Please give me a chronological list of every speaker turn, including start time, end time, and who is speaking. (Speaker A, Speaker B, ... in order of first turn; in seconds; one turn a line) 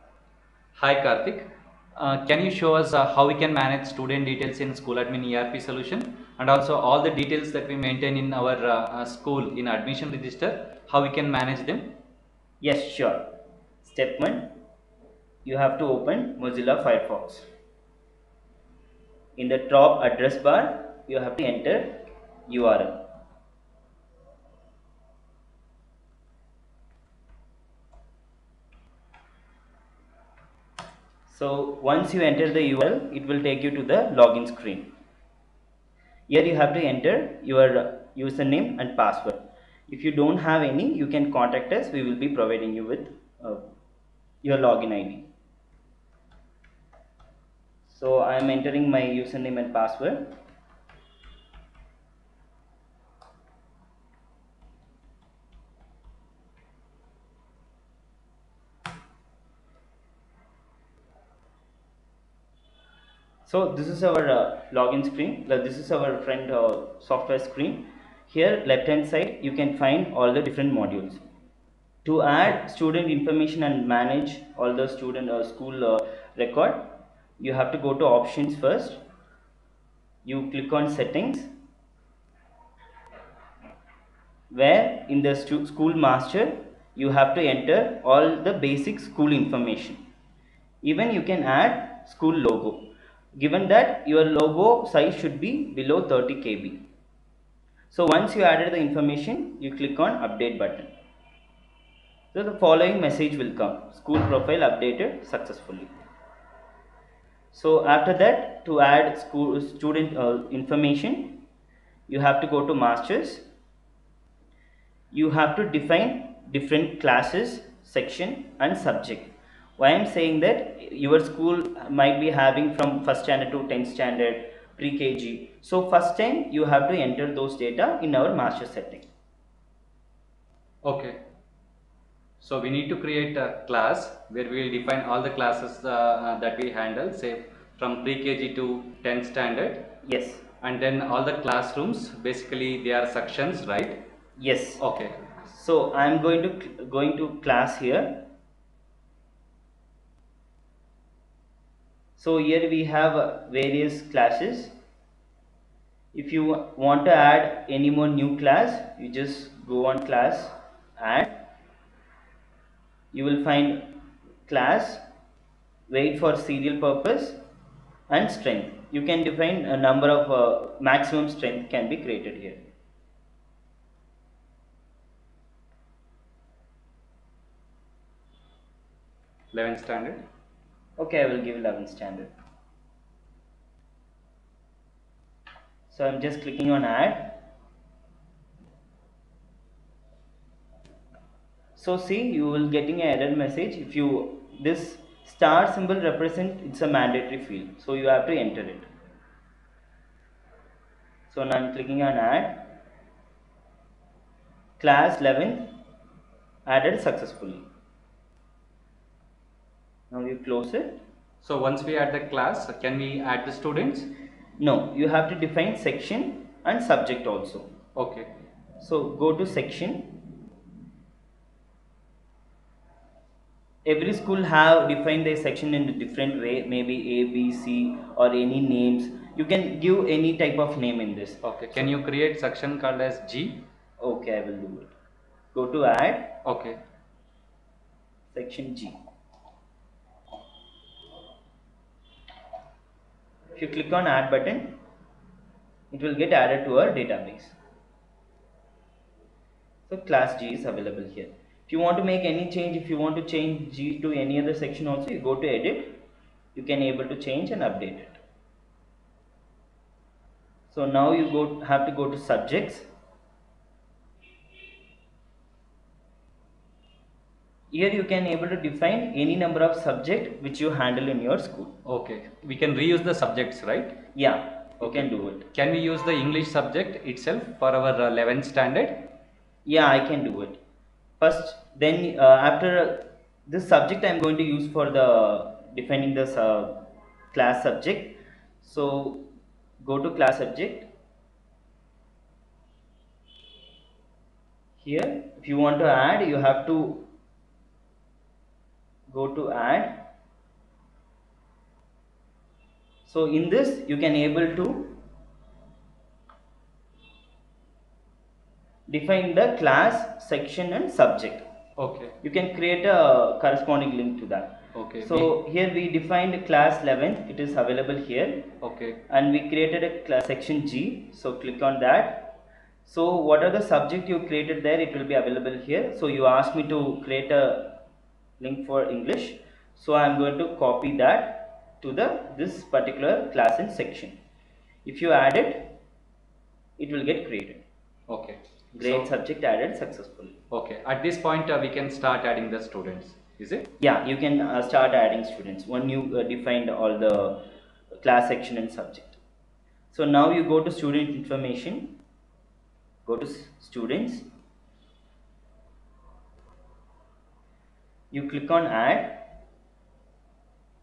Speaker A: 0.8-11.9
Speaker B: 12.6-13.2
Speaker B: 13.8-14.5
Speaker B: 15.4-17.4
Speaker B: 19.4-23.0
Speaker B: 31.3-34.9
Speaker B: 36.3-43.6
Speaker B: 44.4-45.2
Speaker B: 47.9-50.2
Speaker B: 63.4-71.2
Speaker B: 72.0-79.0
Speaker B: 80.2-81.5
Speaker B: 84.5-90.0
Speaker B: 90.8-92.8
Speaker B: 93.3-96.8
Speaker B: 97.9-100.9
Speaker B: 102.3-105.9
Speaker B: 107.5-111.4
Speaker B: 112.1-113.4
Speaker B: 115.1-129.1
Speaker A: 130.8-131.2
Speaker A: 132.4-139.9
Speaker B: 140.0-140.4
Speaker A: 140.6-144.0
Speaker B: 144.4-144.8
Speaker A: 144.8-145.2
Speaker B: 145.4-148.2
Speaker B: 152.2-154.7
Speaker B: 156.1-161.3
Speaker B: 163.1-163.8
Speaker B: 164.5-165.0
Speaker B: 165.9-167.4
Speaker B: 168.1-172.6
Speaker A: 179.5-180.2
Speaker B: 181.0-182.3
Speaker B: 185.9-187.3
Speaker B: 191.7-198.8
Speaker B: 201.3-202.6
Speaker B: 204.8-205.7
Speaker B: 206.7-207.6
Speaker B: 210.1-211.0
Speaker A: 211.4-214.1
Speaker B: 214.6-217.7
Speaker A: 217.9-218.3
Speaker B: 218.8-220.2
Speaker B: 223.8-231.4
Speaker A: 231.4-233.6
Speaker B: 234.0-234.9
Speaker B: 235.5-236.4
Speaker A: 236.4-236.8
Speaker B: 238.3-238.9
Speaker B: 243.6-244.7
Speaker B: 245.9-247.6
Speaker B: 249.9-256.0
Speaker B: 256.5-258.2
Speaker B: 260.7-262.9
Speaker B: 267.7-271.7
Speaker A: 271.8-273.9
Speaker B: 274.1-275.5
Speaker A: 274.8-279.1
Speaker B: 279.6-280.6
Speaker B: 281.2-286.8
Speaker B: 287.3-289.2
Speaker B: 289.8-290.9
Speaker B: 294.8-297.0
Speaker B: 299.1-299.9
Speaker B: 303.0-304.9
Speaker B: 308.9-311.4
Speaker A: 311.8-312.1
Speaker B: 312.2-318.5
Speaker A: 314.7-315.3
Speaker A: 318.6-319.0
Speaker B: 319.1-327.8
Speaker B: 328.4-334.2
Speaker B: 334.8-335.7
Speaker B: 336.8-337.6
Speaker A: 338.1-339.1
Speaker B: 338.7-340.3
Speaker A: 340.5-343.7
Speaker B: 343.8-347.4
Speaker B: 348.0-349.2
Speaker B: 349.9-351.9
Speaker B: 353.0-354.2
Speaker B: 358.1-359.2